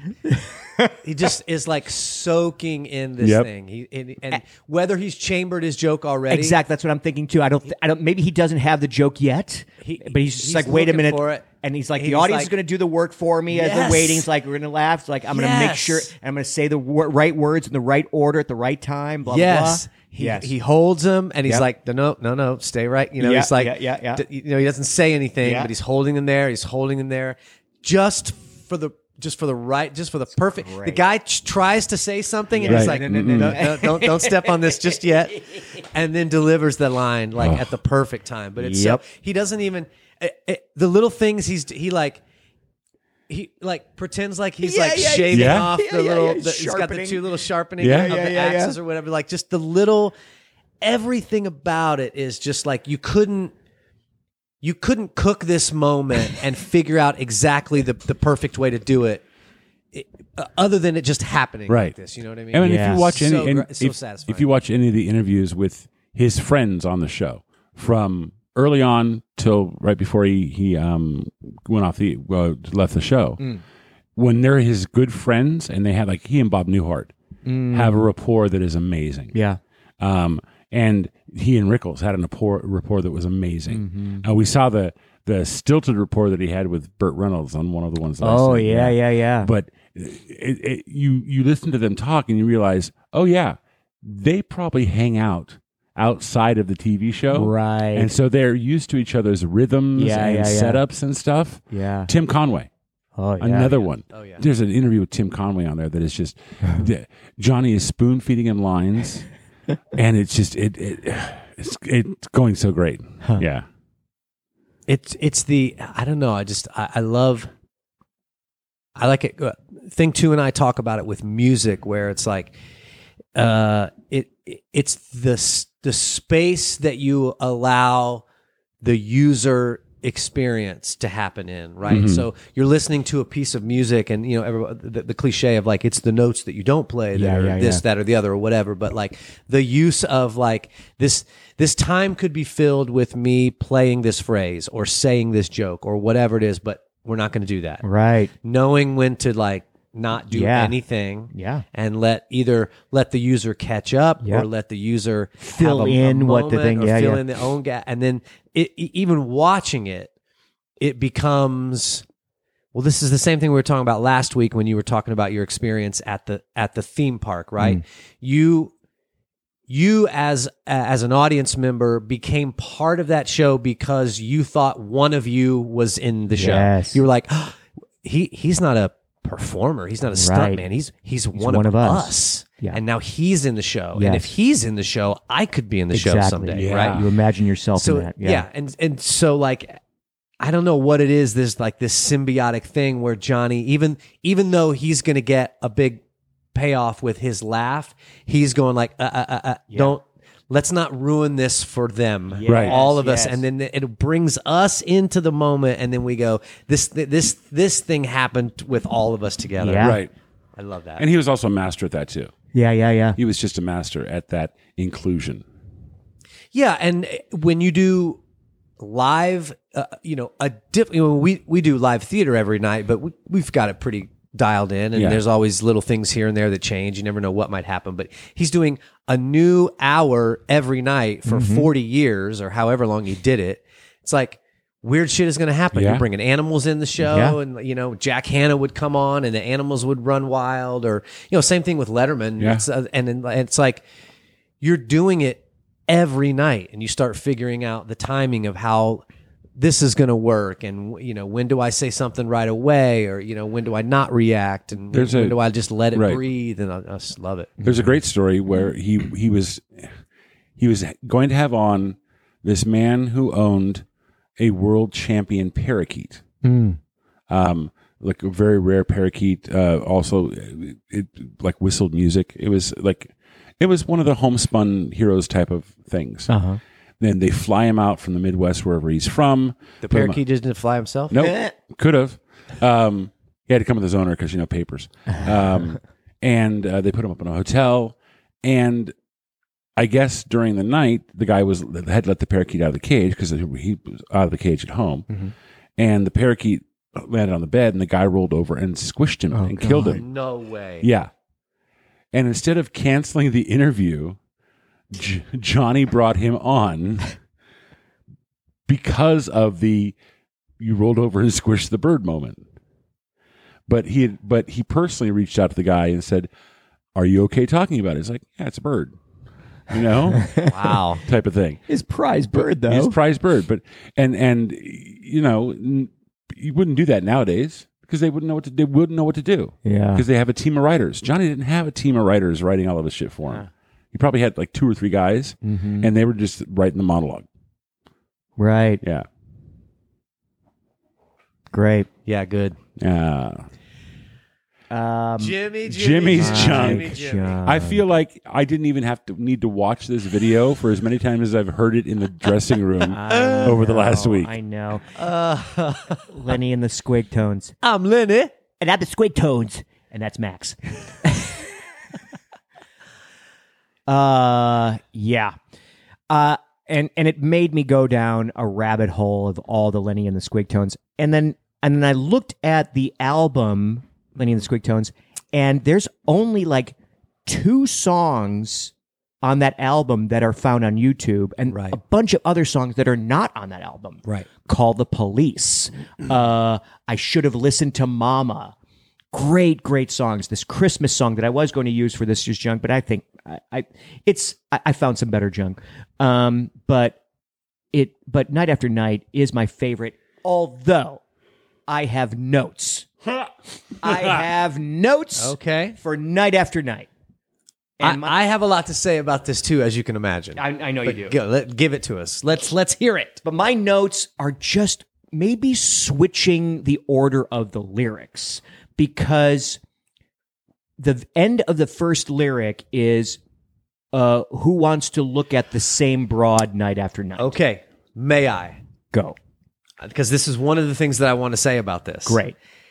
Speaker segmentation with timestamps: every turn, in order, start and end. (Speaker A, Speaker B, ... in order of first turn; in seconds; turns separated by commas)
Speaker A: 0.3-1.0, Speaker B: 1.0-6.6, Speaker C: 3.2-3.5, Speaker A: 6.3-20.5, Speaker B: 9.8-11.5, Speaker B: 12.0-12.5, Speaker B: 13.5-14.3, Speaker B: 15.3-16.1, Speaker B: 19.2-42.2, Speaker A: 23.2-24.2, Speaker A: 25.4-25.7, Speaker A: 30.6-31.0, Speaker A: 32.6-35.0, Speaker C: 32.7-33.6, Speaker C: 37.4-37.7, Speaker A: 38.6-39.0, Speaker B: 43.3-50.1, Speaker A: 44.6-48.8, Speaker C: 45.3-45.7, Speaker C: 47.8-48.1, Speaker B: 50.8-53.5, Speaker B: 54.6-59.2, Speaker B: 59.9-64.5, Speaker C: 61.7-61.9, Speaker C: 62.5-73.4, Speaker A: 62.6-63.2, Speaker C: 74.2-77.1, Speaker A: 77.5-78.1, Speaker C: 77.7-79.3, Speaker A: 79.3-79.6, Speaker C: 80.0-102.7, Speaker A: 83.7-84.2, Speaker A: 88.2-89.5, Speaker A: 97.3-98.1, Speaker A: 100.0-100.8, Speaker A: 101.7-102.1, Speaker A: 103.2-103.8, Speaker C: 103.4-109.3, Speaker B: 104.1-104.4, Speaker C: 109.9-113.7, Speaker B: 114.9-117.5, Speaker B: 119.0-122.5, Speaker B: 123.3-128.2, Speaker B: 128.8-147.8, Speaker C: 131.9-132.2, Speaker A: 137.1-137.8, Speaker A: 147.8-148.3, Speaker B: 148.4-160.1, Speaker A: 150.3-150.8, Speaker A: 151.3-151.6, Speaker A: 155.4-157.2, Speaker B: 160.8-162.1, Speaker B: 162.7-168.7, Speaker B: 169.7-187.0, Speaker A: 176.4-177.0, Speaker A: 180.1-180.6, Speaker A: 181.3-182.8, Speaker A: 183.9-184.3, Speaker A: 185.9-188.4, Speaker C: 186.6-187.1, Speaker B: 187.8-189.8, Speaker B: 190.4-196.0, Speaker B: 196.5-210.0, Speaker A: 202.4-203.4, Speaker C: 202.5-202.8, Speaker A: 209.6-210.0, Speaker C: 209.8-210.1, Speaker B: 210.6-211.1, Speaker C: 211.0-212.3, Speaker A: 212.5-213.2, Speaker C: 213.2-215.4, Speaker B: 216.5-218.2, Speaker B: 218.8-243.8, Speaker C: 224.9-225.2, Speaker A: 231.3-231.7, Speaker C: 235.7-236.0, Speaker A: 237.0-237.4, Speaker C: 242.4-242.6, Speaker B: 244.6-249.0, Speaker B: 249.6-257.6, Speaker C: 254.9-255.4, Speaker C: 255.9-256.2, Speaker C: 257.6-259.9, Speaker C: 260.6-263.9, Speaker C: 264.4-266.2, Speaker A: 266.4-266.8, Speaker C: 267.3-276.3, Speaker A: 276.3-276.6, Speaker C: 277.0-280.2, Speaker B: 279.8-281.2, Speaker C: 281.1-288.9, Speaker A: 281.2-281.5, Speaker C: 289.8-295.1, Speaker C: 295.8-300.0, Speaker A: 299.3-300.0, Speaker B: 299.9-300.9, Speaker C: 300.8-301.1, Speaker C: 302.1-304.2, Speaker C: 304.9-307.1, Speaker C: 308.7-310.0, Speaker C: 310.6-312.4, Speaker C: 313.7-316.3, Speaker C: 316.9-319.0, Speaker C: 319.7-320.3, Speaker A: 320.1-320.5, Speaker B: 320.4-321.0, Speaker C: 321.0-321.6, Speaker A: 321.7-323.0, Speaker C: 322.3-337.2, Speaker A: 329.6-330.0, Speaker A: 335.4-335.9, Speaker A: 338.4-338.8, Speaker C: 338.8-339.1, Speaker A: 341.5-341.9, Speaker B: 342.1-342.6, Speaker C: 342.8-343.5, Speaker A: 344.7-345.4, Speaker B: 345.2-347.4, Speaker C: 345.7-354.3, Speaker A: 346.1-347.8, Speaker A: 352.9-354.9, Speaker B: 353.1-353.6, Speaker B: 354.9-356.1, Speaker A: 356.1-357.5, Speaker B: 357.6-358.3, Speaker A: 358.6-361.4, Speaker A: 363.9-365.4, Speaker A: 366.1-376.8, Speaker A: 377.2-388.5, Speaker B: 381.5-381.8, Speaker A: 389.1-397.0, Speaker A: 397.7-401.0, Speaker A: 401.7-402.9, Speaker A: 403.8-406.9, Speaker B: 405.2-405.8, Speaker A: 407.8-408.1, Speaker B: 407.8-413.2, Speaker A: 410.4-411.1, Speaker A: 413.2-419.6, Speaker A: 420.8-423.2, Speaker A: 423.9-427.4, Speaker B: 427.2-428.6, Speaker B: 429.8-432.2, Speaker A: 432.1-432.4